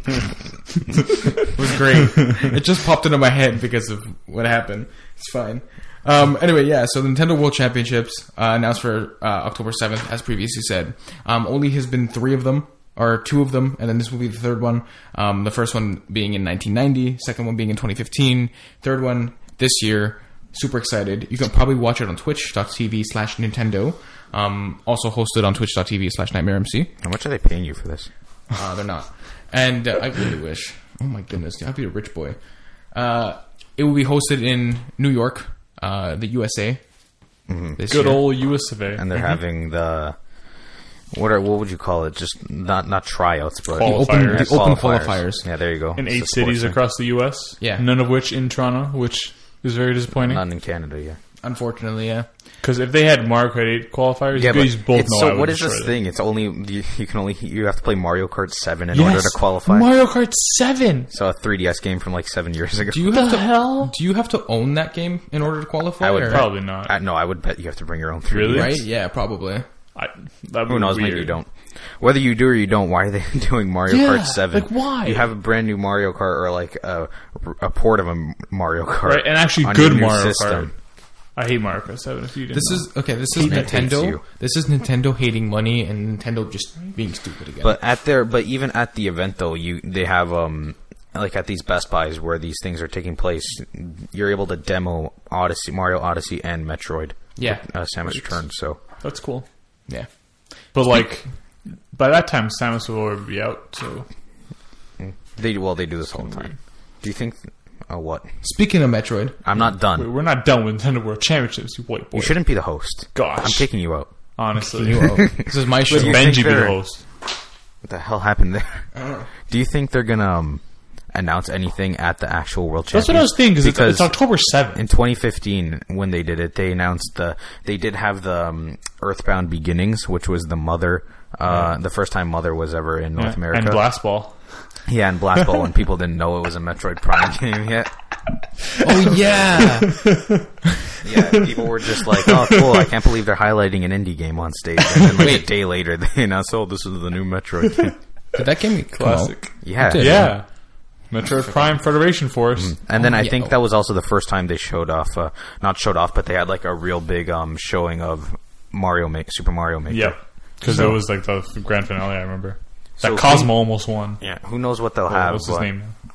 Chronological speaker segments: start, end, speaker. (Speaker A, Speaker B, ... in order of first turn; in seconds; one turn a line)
Speaker A: 1.4-26.9
Speaker B: 27.0-28.1
Speaker A: 28.5-32.4
Speaker A: 32.9-36.8
Speaker B: 37.5-37.8
Speaker A: 37.8-38.3
Speaker C: 37.9-39.1
Speaker B: 38.9-40.2
Speaker B: 41.1-46.8
Speaker C: 43.7-44.6
Speaker A: 43.8-45.5
Speaker C: 46.0-50.4
Speaker A: 47.6-47.9
Speaker B: 50.1-51.2
Speaker A: 51.4-52.3
Speaker C: 52.6-55.9
Speaker B: 54.3-59.9
Speaker C: 58.9-61.1
Speaker B: 61.1-63.2
Speaker A: 62.9-66.5
Speaker C: 63.1-63.9
Speaker B: 66.0-68.8
Speaker C: 66.3-66.9
Speaker C: 68.3-68.8
Speaker A: 68.5-69.7
Speaker C: 70.0-71.3
Speaker B: 70.7-80.7
Speaker C: 73.9-75.2
Speaker C: 79.0-80.7
Speaker C: 81.4-83.9
Speaker A: 82.5-87.8
Speaker B: 83.4-84.2
Speaker B: 87.6-98.8
Speaker A: 97.4-97.6
Speaker C: 99.0-99.5
Speaker C: 100.7-101.3
Speaker C: 101.9-104.1
Speaker B: 105.0-106.5
Speaker C: 106.1-106.6
Speaker B: 107.0-108.3
Speaker A: 108.4-109.4
Speaker B: 109.4-110.1
Speaker C: 110.0-112.5
Speaker B: 112.2-114.1
Speaker C: 113.1-113.7
Speaker C: 114.4-117.0
Speaker A: 114.7-116.4
Speaker B: 115.2-116.8
Speaker B: 117.8-118.9
Speaker A: 118.9-119.3
Speaker B: 119.5-124.2
Speaker C: 122.9-124.8
Speaker B: 124.7-133.8
Speaker C: 133.2-134.6
Speaker B: 134.9-137.9
Speaker A: 138.8-140.1
Speaker B: 138.9-139.7
Speaker C: 139.8-140.4
Speaker B: 141.0-147.9
Speaker C: 141.1-141.5
Speaker C: 142.0-142.9
Speaker A: 145.2-145.5
Speaker A: 148.3-150.4
Speaker C: 148.9-150.5
Speaker B: 149.6-150.3
Speaker C: 151.1-152.8
Speaker B: 152.6-160.2
Speaker A: 152.9-153.5
Speaker C: 159.9-164.2
Speaker B: 163.0-163.6
Speaker B: 164.2-165.7
Speaker C: 165.1-165.9